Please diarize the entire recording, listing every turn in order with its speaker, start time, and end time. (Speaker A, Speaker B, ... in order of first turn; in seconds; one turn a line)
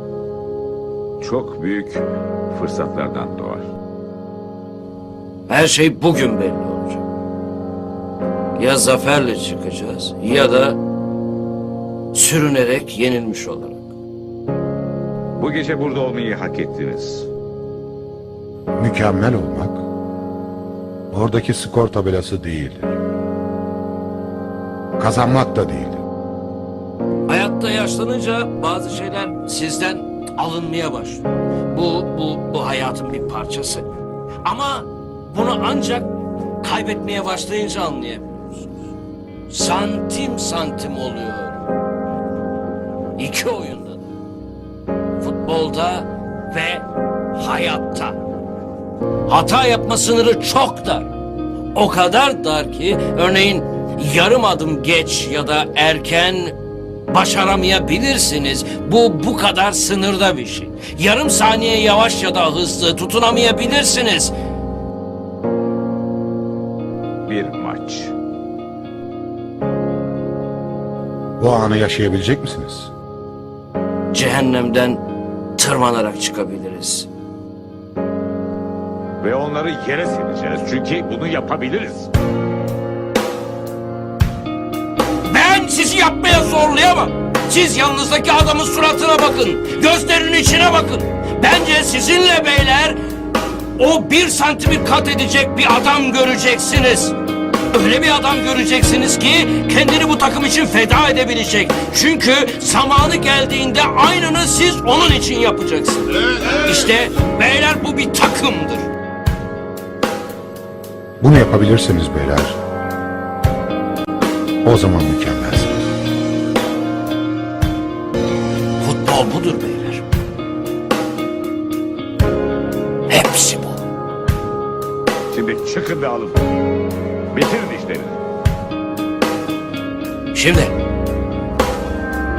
Speaker A: 1.2-3.7
Speaker B: 5.5-7.0
Speaker B: 8.6-10.8
Speaker B: 12.1-13.8
Speaker A: 15.4-17.3
Speaker C: 18.8-19.8
Speaker C: 21.1-22.9
Speaker C: 25.0-26.0
Speaker B: 27.3-33.9
Speaker B: 34.5-36.1
Speaker B: 36.6-38.7
Speaker B: 39.5-41.6
Speaker B: 43.2-44.0
Speaker B: 45.2-48.2
Speaker B: 49.3-51.1
Speaker B: 51.8-56.6
Speaker B: 57.1-64.3
Speaker A: 67.3-68.1
Speaker C: 71.4-72.9
Speaker B: 74.1-75.0
Speaker B: 75.6-77.1
Speaker A: 79.2-82.1
Speaker B: 85.3-93.0
Speaker B: 93.8-97.2
Speaker B: 97.7-108.9
Speaker C: 111.2-112.6
Speaker C: 114.6-115.8
Speaker B: 118.8-120.0
Speaker B: 123.1-123.8
Speaker A: 125.3-126.4
Speaker A: 127.3-128.2
Speaker B: 130.3-130.7